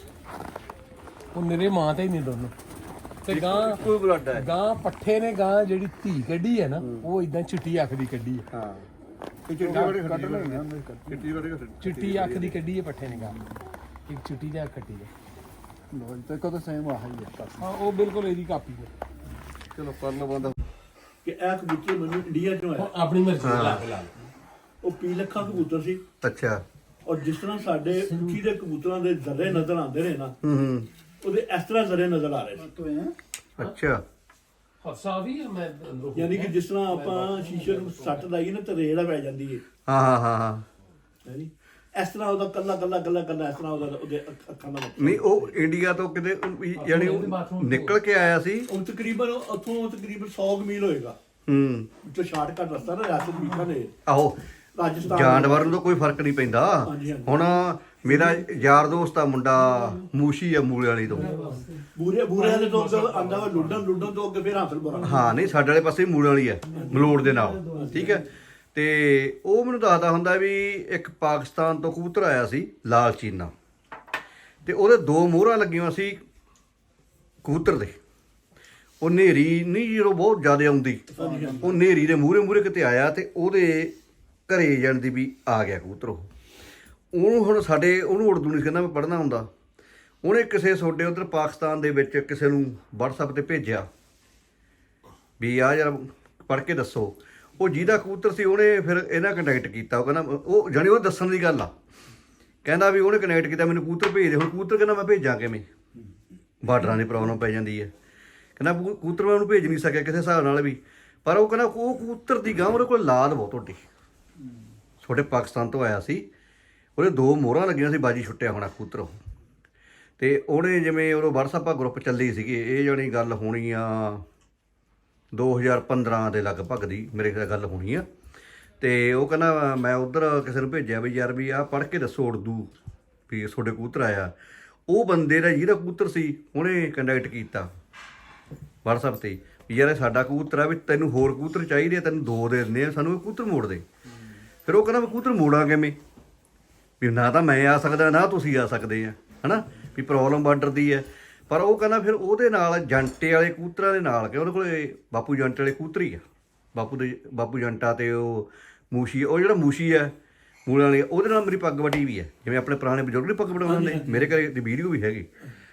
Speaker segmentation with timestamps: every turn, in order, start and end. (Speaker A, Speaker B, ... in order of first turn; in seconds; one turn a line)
Speaker A: 1.3-2.5
Speaker A: 3.2-8.5
Speaker B: 3.3-4.5
Speaker B: 6.8-7.1
Speaker B: 8.5-8.9
Speaker C: 9.5-11.4
Speaker B: 9.5-12.6
Speaker A: 9.6-9.9
Speaker A: 11.8-13.4
Speaker C: 13.1-13.6
Speaker A: 14.1-15.1
Speaker C: 15.9-17.7
Speaker A: 17.6-18.9
Speaker B: 19.7-20.6
Speaker D: 21.2-22.9
Speaker A: 22.8-24.1
Speaker B: 23.4-23.8
Speaker D: 24.8-26.0
Speaker B: 26.2-26.6
Speaker D: 27.1-30.4
Speaker B: 30.4-30.9
Speaker D: 31.2-32.7
Speaker C: 32.6-33.1
Speaker B: 33.6-34.0
Speaker A: 34.8-38.2
Speaker D: 36.1-39.6
Speaker B: 39.9-40.6
Speaker D: 41.2-45.5
Speaker B: 45.0-48.7
Speaker A: 46.8-48.0
Speaker D: 48.7-51.2
Speaker B: 51.5-51.9
Speaker D: 52.0-54.0
Speaker B: 54.1-54.4
Speaker D: 54.8-55.8
Speaker B: 55.1-61.3
Speaker D: 56.8-58.3
Speaker A: 61.1-64.0
Speaker D: 61.1-65.3
Speaker A: 65.0-65.4
Speaker B: 65.0-73.5
Speaker A: 66.7-68.2
Speaker D: 66.7-68.2
Speaker B: 74.7-76.2
Speaker B: 77.4-78.0
Speaker B: 79.0-81.0
Speaker D: 81.1-81.8
Speaker C: 81.2-81.8
Speaker B: 81.6-84.0
Speaker B: 84.5-86.3
Speaker B: 87.1-89.5
Speaker B: 90.2-93.9
Speaker B: 95.4-101.7
Speaker B: 102.6-105.7
Speaker B: 106.6-107.9
Speaker B: 108.6-113.8
Speaker B: 115.0-116.2
Speaker B: 117.0-119.1
Speaker B: 120.2-124.2
Speaker B: 125.3-128.1
Speaker B: 128.8-132.7
Speaker B: 133.3-134.3
Speaker B: 134.9-137.7
Speaker B: 138.8-143.8
Speaker B: 144.7-146.0
Speaker B: 147.0-156.2
Speaker B: 156.8-160.1
Speaker B: 160.7-165.3
Speaker D: 163.6-164.4